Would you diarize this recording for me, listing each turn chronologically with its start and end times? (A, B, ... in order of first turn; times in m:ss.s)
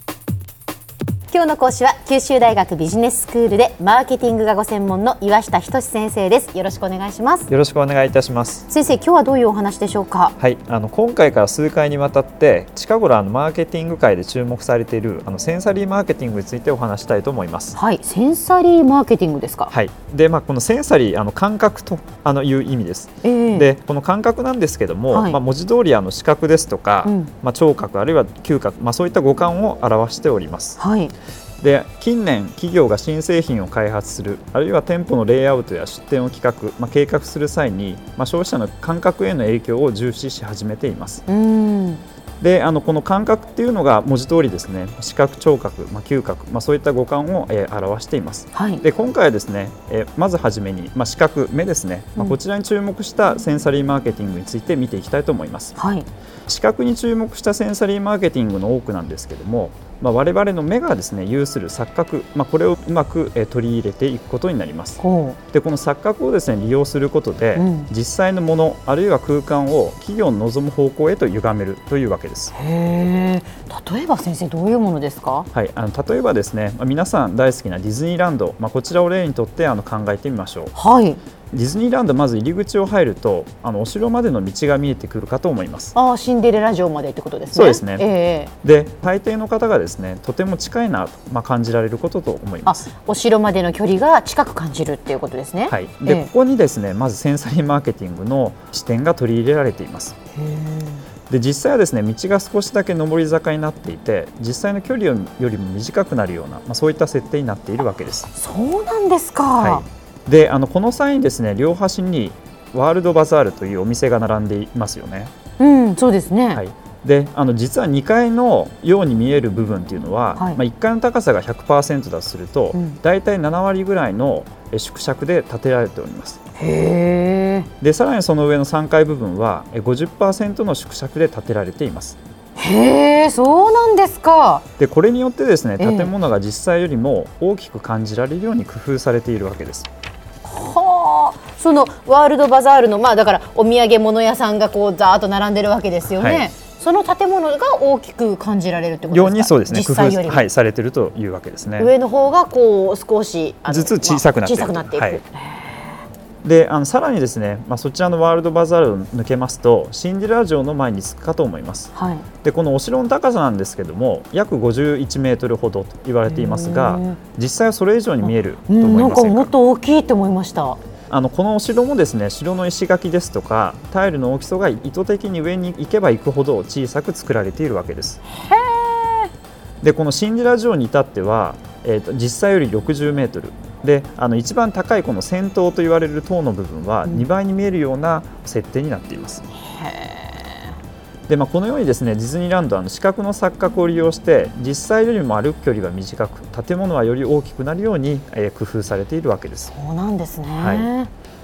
0:01.3-0:07.5 A
0:07.5-0:08.6 B
0:08.7-0:10.4 A
0:10.4-0:17.8 B
0:17.7-0:19.7 A
0:19.7-0:30.8 B
0:23.2-0:23.7 A
0:25.1-0:25.4 A
0:27.0-0:27.3 A
0:30.8-0:31.1 A
0:31.6-0:41.2 B
0:41.3-0:42.0 A
0:42.4-0:55.8 B
0:48.5-0:48.8 A
0:55.8-0:56.1 A
0:56.5-1:05.0 B
1:05.0-1:05.4 A
1:05.5-1:12.5 B
1:07.6-1:07.9 A
1:12.5-1:15.5 A
1:15.5-1:20.7 B
1:20.7-1:21.2 A
1:21.5-1:25.9 B
1:25.9-1:28.5 A
1:27.5-1:28.0 B
1:28.6-1:32.8 B
1:32.6-1:36.3 A
1:35.7-1:40.2 B
1:40.3-1:41.0 A
1:41.3-1:48.3 B
1:48.3-1:49.8 A
1:49.6-1:55.3 B
1:55.6-1:56.6 A
1:56.5-2:06.4 B
2:06.6-2:07.7 A
2:07.8-2:12.2 B
2:12.6-2:14.6 A
2:14.8-2:19.9 B
2:15.8-2:16.1 A
2:20.4-2:30.4 A
2:26.1-2:26.5 B
2:29.1-2:31.9 B
2:31.8-2:35.8 A
2:33.7-2:35.2 B
2:36.4-2:41.9 B
2:41.9-2:42.2 A
2:42.4-2:49.5 B
2:46.3-2:47.2 A
2:48.2-2:50.8 A
2:51.1-2:58.2 B
2:58.3-2:59.3 A
2:59.8-3:09.4 B
3:09.6-3:10.6 A
3:11.3-3:19.7 B
3:19.7-3:21.1 A
3:20.6-3:20.9 B